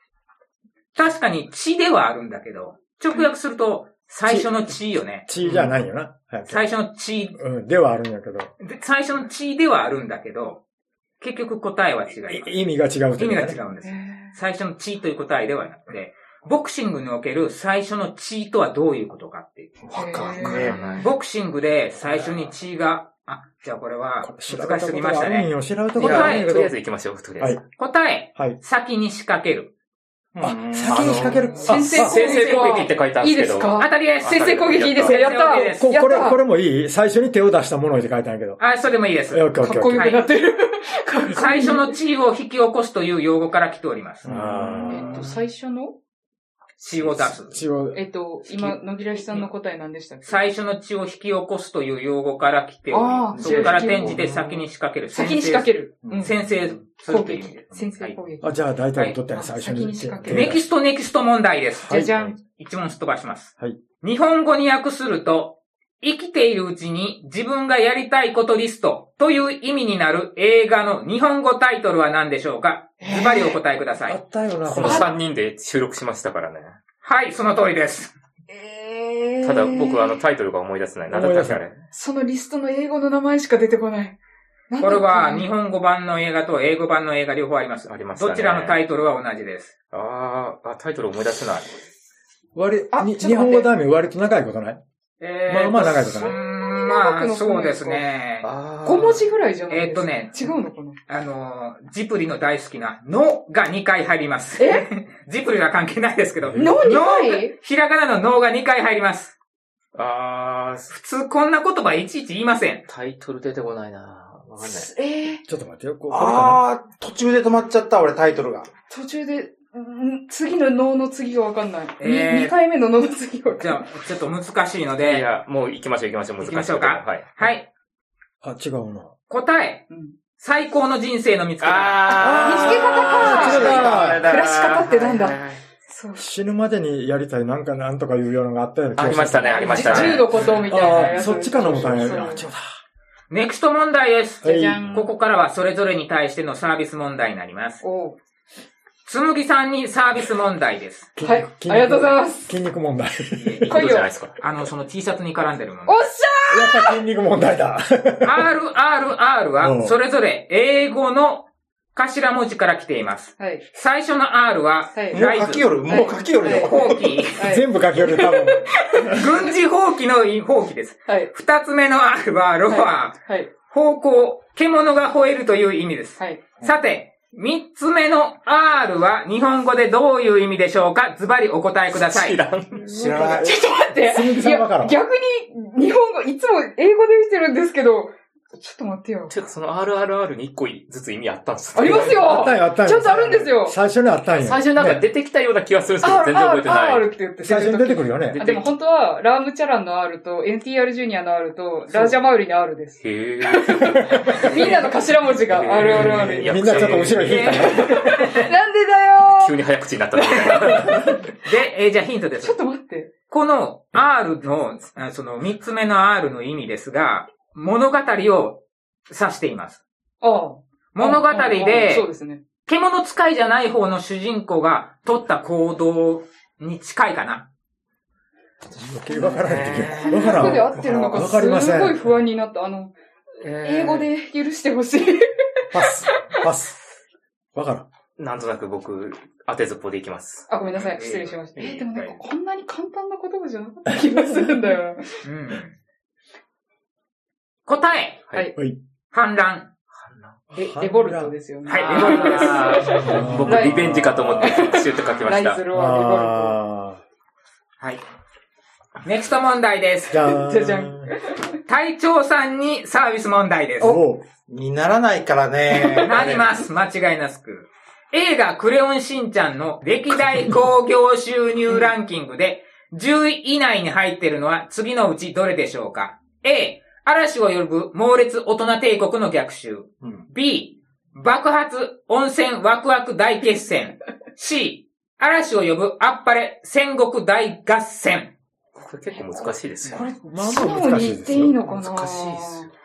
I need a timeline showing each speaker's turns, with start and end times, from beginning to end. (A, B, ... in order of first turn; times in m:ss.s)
0:00.9-0:05.3 A
0:04.2-0:04.7 B
0:05.2-0:06.7 B
0:06.5-0:07.4 A
0:07.4-0:08.5 B
0:08.6-0:10.6 A
0:11.2-0:12.6 A
0:12.3-0:13.6 B
0:13.2-0:19.8 A
0:13.8-0:14.4 C
0:19.8-0:20.8 D
0:19.9-0:21.1 C
0:20.2-0:21.1 E
0:20.9-0:26.6 A
0:24.2-0:26.7 B
0:26.0-0:27.6 E
0:27.8-0:29.7 A
0:30.3-0:31.7 D
0:30.4-0:32.2 B
0:30.8-0:35.4 E
0:31.1-0:36.4 C
0:32.2-0:32.6 A
0:33.7-0:35.9 A
0:35.8-0:38.6 B
0:38.6-0:40.2 A
0:39.3-0:40.1 B
0:39.6-0:42.0 C
0:41.3-0:44.3 A
0:44.2-0:45.2 B
0:44.3-0:45.3 E
0:44.9-0:45.9 C
0:45.0-0:45.3 D
0:46.8-0:47.6 A
0:47.5-0:48.8 B
0:47.9-0:50.4 C
0:50.2-0:58.2 A
0:52.9-0:54.4 C
0:53.3-0:54.4 D
0:53.4-0:53.8 E
0:55.1-0:56.4 C
0:56.0-0:56.4 D
0:57.1-0:58.6 C
0:58.4-1:00.6 B
0:59.3-1:00.6 C
1:00.2-1:14.2 A
1:01.9-1:02.3 B
1:01.9-1:02.4 C
1:13.0-1:13.6 C
1:14.0-1:15.1 B
1:14.6-1:16.8 E
1:14.8-1:15.1 C
1:17.0-1:18.1 A
1:18.5-1:20.2 C
1:19.4-1:21.8 E
1:21.1-1:21.6 B
1:21.9-1:24.2 C
1:24.7-1:25.5 C
1:24.8-1:29.7 A
1:27.9-1:28.8 E
1:29.9-1:31.8 E
1:32.5-1:34.8 B
1:32.9-1:33.7 C
1:35.2-1:38.5 A
1:35.5-1:36.4 B
1:36.1-1:38.0 C
1:38.4-1:39.3 E
1:38.8-1:41.0 C
1:39.7-1:40.5 A
1:41.1-1:49.3 A
1:44.6-1:44.9 C
1:46.4-1:46.9 B
1:46.6-1:47.5 C
1:49.9-1:50.9 E
1:50.9-1:52.8 A
1:52.9-1:54.9 E
1:54.6-1:55.4 C
1:55.4-1:56.6 B
1:56.1-1:58.7 D
1:58.9-2:03.8 C
2:02.0-2:02.6 A
2:03.6-2:05.2 A
2:05.0-2:07.5 E
2:06.4-2:07.7 A
2:08.4-2:09.1 B
2:09.3-2:12.2 A
2:09.9-2:10.1 C
2:11.6-2:15.6 E
2:12.1-2:16.2 C
2:12.2-2:14.2 B
2:13.1-2:14.2 D
2:16.2-2:22.6 B
2:19.0-2:21.2 E
2:19.5-2:22.4 C
2:23.3-2:27.8 A
2:24.4-2:24.9 B
2:24.4-2:25.1 C
2:27.8-2:28.2 C
2:29.0-2:31.1 A
2:31.2-2:33.7 B
2:31.2-2:32.5 C
2:33.4-2:36.1 A
2:33.6-2:34.4 E
2:33.6-2:34.1 C
2:35.8-2:37.0 C
2:36.5-2:38.5 B
2:38.2-2:45.7 A
2:39.6-2:40.0 B
2:43.4-2:43.7 C
2:44.9-2:45.2 C
2:45.1-2:47.2 D
2:45.9-2:49.5 C
2:46.5-2:47.5 A
2:47.4-2:49.2 B
2:49.1-3:02.4 A
2:51.1-2:51.3 C
2:52.7-2:53.5 C
2:56.2-2:56.5 C
3:01.9-3:02.8 E
3:02.8-3:05.0 B
3:02.8-3:03.6 D
3:03.2-3:09.3 C
3:09.3-3:12.3 E
3:11.7-3:13.8 C
3:11.8-3:15.0 B
3:14.3-3:17.1 E
3:16.0-3:29.6 C
3:17.4-3:18.4 B
3:18.3-3:18.7 E
3:23.0-3:27.6 E
3:23.9-3:24.4 B
3:25.9-3:28.4 B
3:27.2-3:28.0 A
3:29.2-3:31.0 E
3:30.1-3:31.2 C
3:31.4-3:32.6 A
3:32.4-3:33.1 C
3:33.3-3:39.8 A
3:40.2-3:42.4 C
3:40.9-3:42.1 A
3:42.6-3:47.5 A
3:48.8-3:52.1 B
3:49.1-3:52.9 C
3:49.2-3:50.7 E
3:50.8-3:51.2 D
3:53.4-3:54.1 E
3:53.5-3:56.2 C
3:55.7-3:56.8 B
3:57.5-3:57.8 B
3:58.2-4:00.5 E
4:00.5-4:05.2 C
4:00.7-4:02.2 A
4:03.9-4:04.2 B
4:05.2-4:05.8 A
4:07.6-4:08.2 A
4:09.1-4:09.7 A
4:09.9-4:10.4 E
4:10.5-4:11.3 B
4:10.5-4:16.6 C
4:11.6-4:12.8 A
4:11.7-4:15.6 E
4:12.8-4:14.7 B
4:15.7-4:17.0 B
4:19.0-4:20.3 A
4:20.1-4:21.1 B
4:20.2-4:21.4 C
4:21.7-4:24.0 A
4:23.8-4:24.2 B
4:24.5-4:26.5 D
4:26.0-4:48.3 A
4:48.7-4:50.1 E
4:49.2-4:52.7 C
4:49.9-4:51.6 B
4:51.6-4:52.7 E